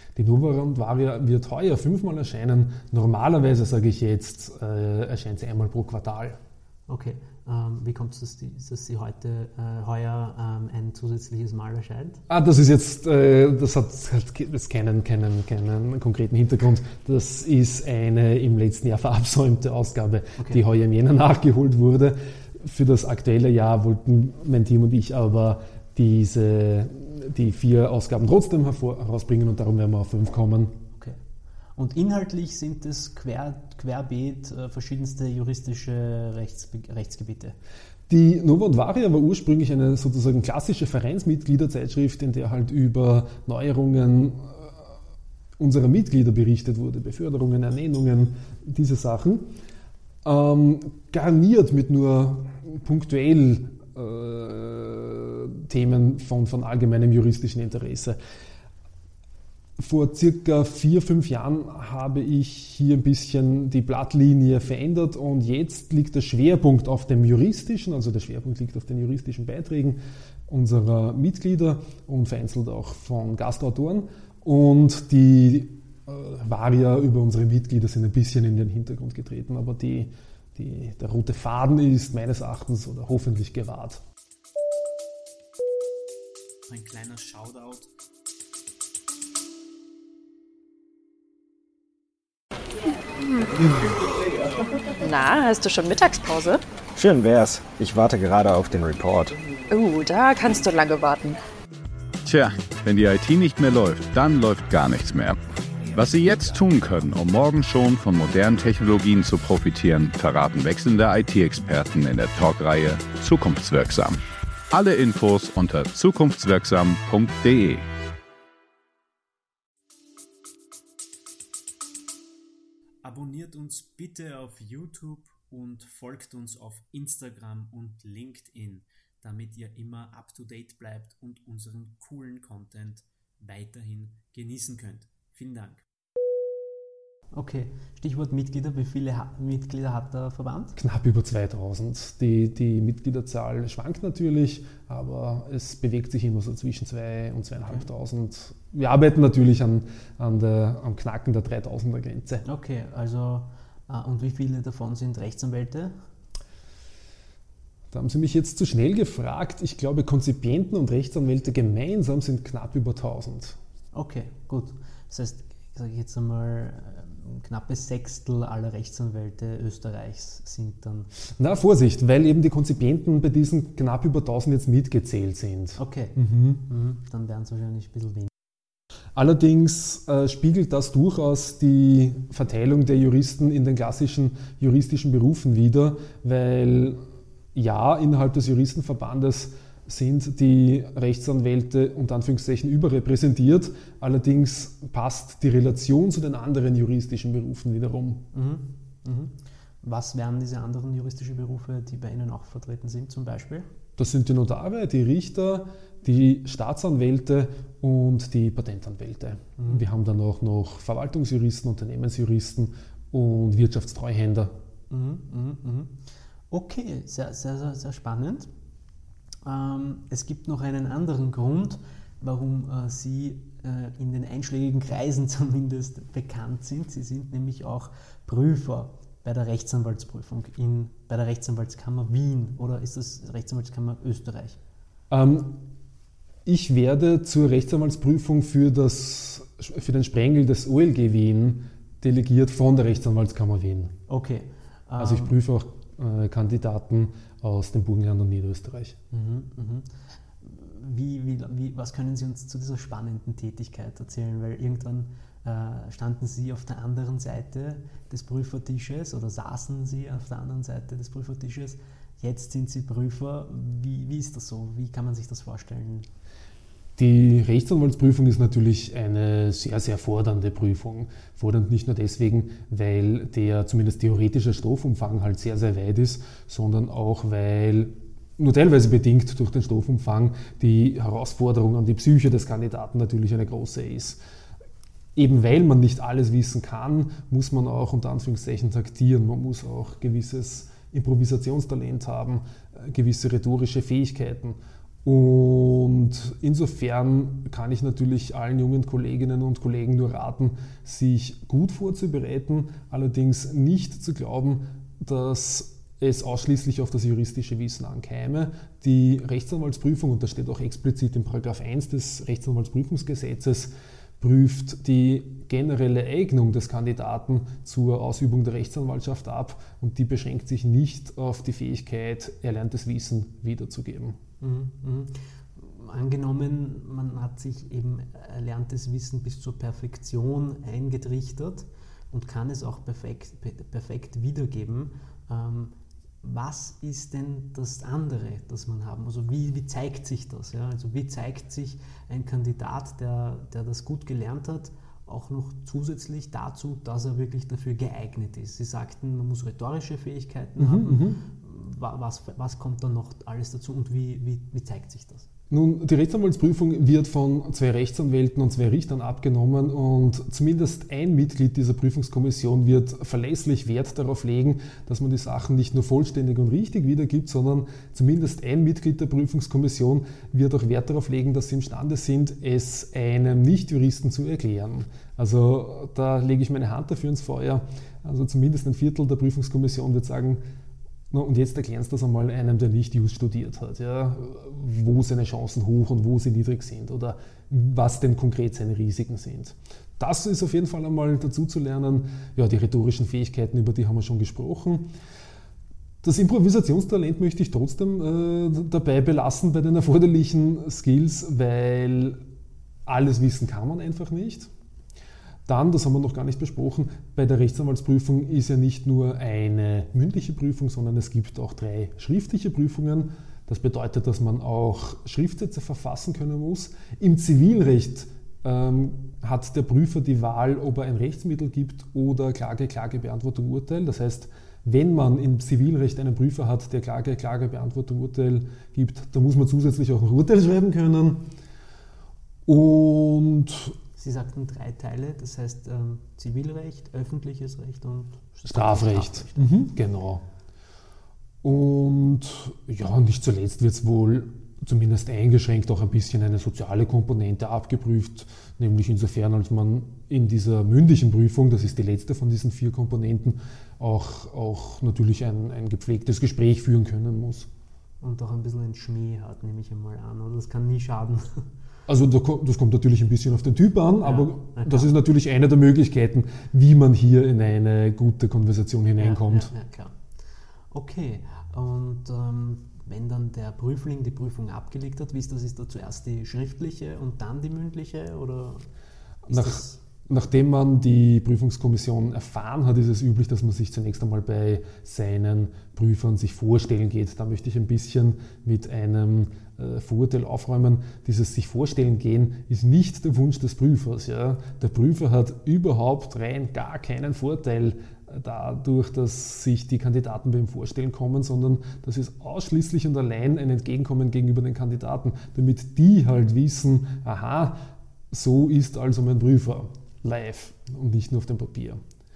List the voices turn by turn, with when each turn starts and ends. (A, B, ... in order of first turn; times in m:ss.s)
0:00.2-0:06.4 A
0:06.9-0:12.2 B
0:12.3-0:30.7 A
0:31.8-0:37.6 B
0:38.1-0:44.8 A
0:45.6-0:49.5 A
0:50.2-0:58.2 A
0:59.8-1:24.0 A
1:26.7-1:27.9 B
1:33.2-1:33.6 C
1:35.0-1:36.6 C
1:37.0-1:39.4 D
1:39.7-1:41.4 C
1:42.2-1:45.4 E
1:45.9-1:54.2 E
1:54.7-1:57.8 E
2:03.0-2:15.8 B
2:17.3-2:20.8 B
2:20.8-2:32.4 A
2:27.6-2:27.9 B
2:32.4-2:35.9 B
2:37.9-2:43.6 A
2:43.9-2:51.1 B
2:51.4-2:56.6 A
2:55.8-2:58.3 B
2:59.1-3:07.0 A
3:07.5-3:18.2 A
3:18.3-3:23.7 B
3:24.0-3:34.5 A
3:29.6-3:29.8 B
3:34.9-3:38.5 B
3:39.4-3:54.6 B
3:55.1-3:55.6 A
3:56.4-4:03.9 A
4:04.1-4:05.4 B
4:05.0-4:09.0 A
4:09.1-4:26.1 B
4:27.0-4:44.2 A
4:45.1-5:24.2 A
5:24.4-5:55.3 B
5:50.6-5:51.2 A
5:55.5-6:20.4 A
6:21.1-6:34.9 A
6:36.0-6:42.2 A
6:42.8-6:44.5 A
6:45.4-7:11.2 A
7:12.4-7:13.7 A
7:14.0-7:19.5 B
7:18.5-7:20.2 A
7:21.4-7:37.5 A
7:38.0-7:41.5 B
7:41.9-7:49.5 A
7:44.0-7:44.9 B
7:49.0-7:50.0 B
7:50.7-7:58.7 B
7:59.3-7:59.8 B
7:59.3-8:31.8 A